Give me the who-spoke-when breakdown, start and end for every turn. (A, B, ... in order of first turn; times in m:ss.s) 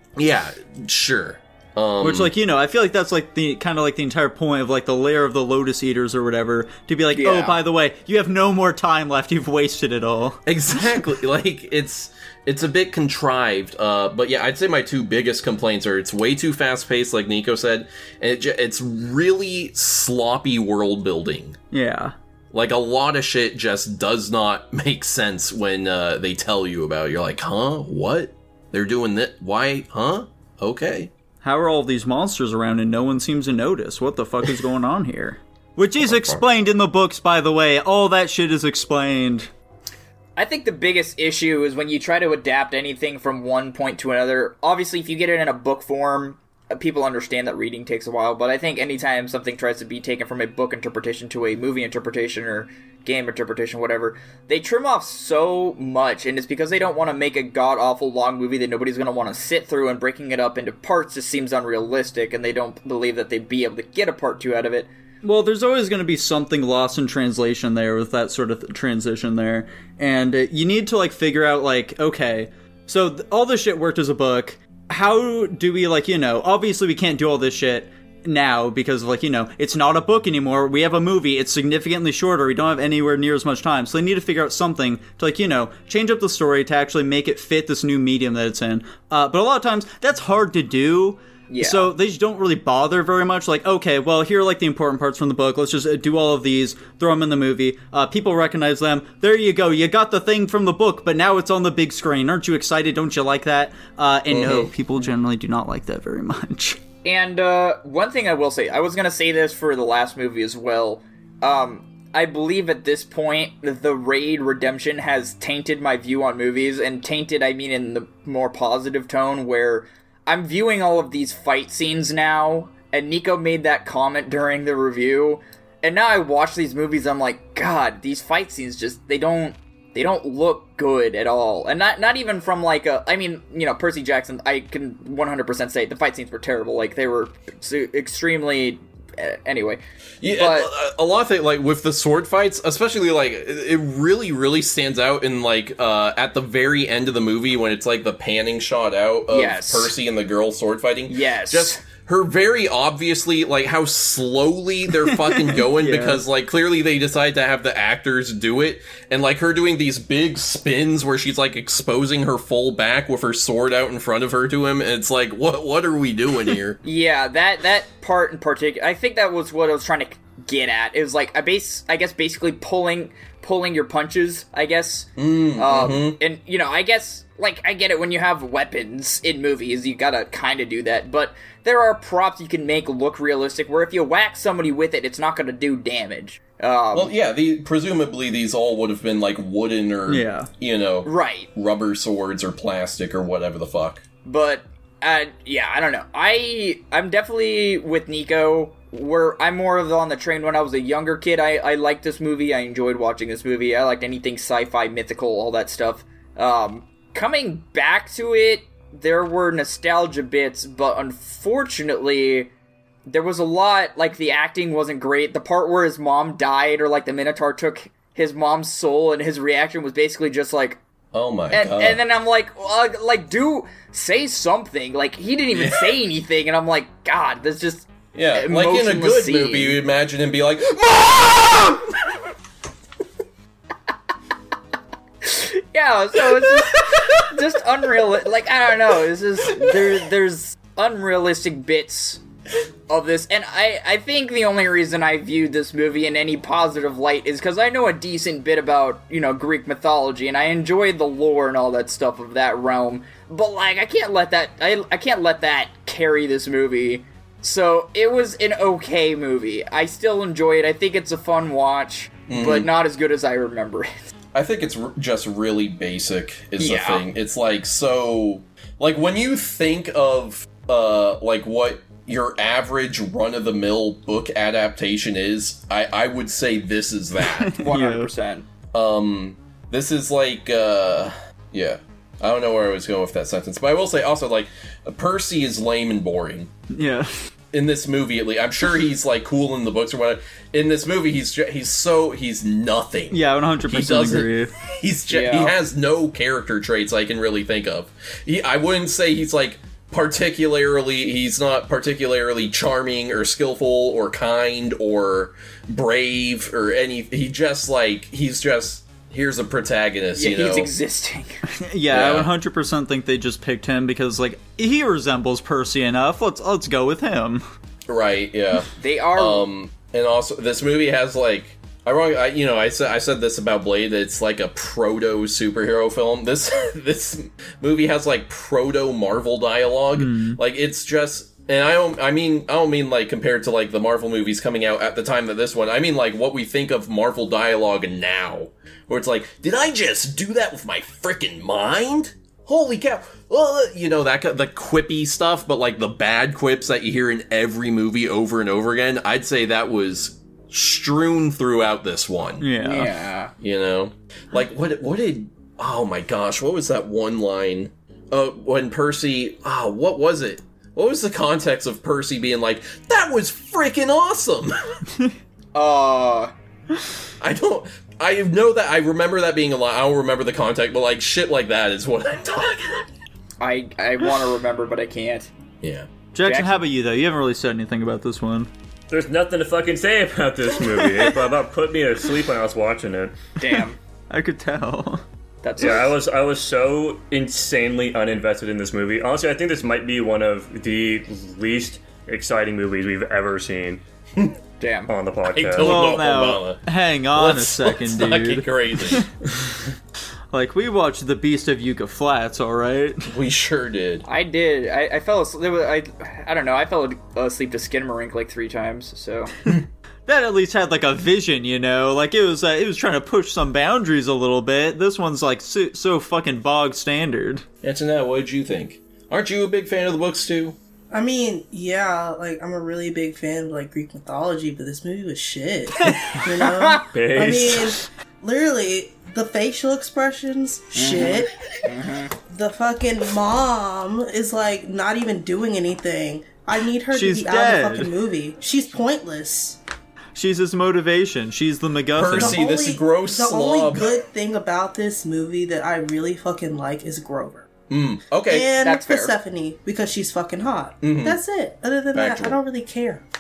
0:00.2-0:02.3 A
0:02.0-0:10.4 B
0:07.2-0:07.6 C
0:10.5-0:21.6 A
0:21.7-0:22.2 B
0:22.5-0:31.1 A
0:31.4-0:39.5 B
0:36.0-0:36.4 A
0:40.4-1:04.9 C
1:05.2-1:46.8 B
1:31.5-1:31.9 C
1:44.3-1:44.7 A
1:47.0-2:19.8 C
2:20.2-2:46.8 A
2:20.4-2:20.7 C
2:29.3-2:29.9 C
2:31.1-2:31.8 C
2:35.1-2:36.2 B
2:46.8-3:07.1 C
2:55.2-2:56.2 A
3:06.9-3:14.0 A
3:10.1-3:10.5 B
3:11.0-3:11.5 C
3:14.2-3:32.5 C
3:33.1-3:40.8 C
3:41.1-3:42.0 A
3:41.5-3:49.8 C
3:45.6-3:45.9 A
3:48.1-3:52.0 A
3:55.2-4:02.2 C
4:02.9-4:23.9 C
4:22.3-4:22.7 A
4:24.3-4:37.6 A
4:26.6-4:27.1 C
4:37.2-4:38.1 B
4:37.6-4:38.5 C
4:38.7-4:46.5 A
4:46.7-4:47.1 B
4:47.5-5:10.7 A
4:53.1-4:54.5 B
4:55.1-4:55.6 C
5:10.2-5:11.4 C
5:11.5-5:17.4 B
5:11.9-5:12.3 A
5:17.9-5:52.5 A
5:18.8-5:19.5 C
5:30.0-5:30.4 B
5:52.4-5:52.9 B
5:52.6-5:53.3 C
5:53.4-6:04.8 A
6:05.5-6:06.3 C
6:07.2-6:12.9 A
6:13.4-6:15.3 C
6:15.6-6:15.9 A
6:16.1-6:18.5 B
6:16.2-6:16.6 C
6:18.9-6:23.1 D
6:20.8-6:21.1 B
6:23.4-6:23.8 C
6:24.1-6:25.0 B
6:25.4-6:25.9 C
6:25.6-6:33.8 D
6:34.6-6:34.9 C
6:34.9-6:35.9 D
6:35.3-6:39.1 A
6:35.6-6:39.1 B
6:40.3-6:43.1 B
6:43.1-6:44.1 A
6:44.1-6:49.3 C
6:50.1-6:57.4 B
6:57.6-7:00.6 A
7:00.9-7:11.3 E
7:06.9-7:07.8 D
7:10.7-7:12.1 C
7:12.3-7:19.6 E
7:16.9-7:17.9 B
7:20.2-7:22.4 B
7:22.0-7:24.0 A
7:22.1-7:27.5 E
7:27.7-7:28.5 A
7:28.3-7:33.0 E
7:28.6-7:29.2 C
7:30.8-7:31.2 A
7:31.9-7:32.4 A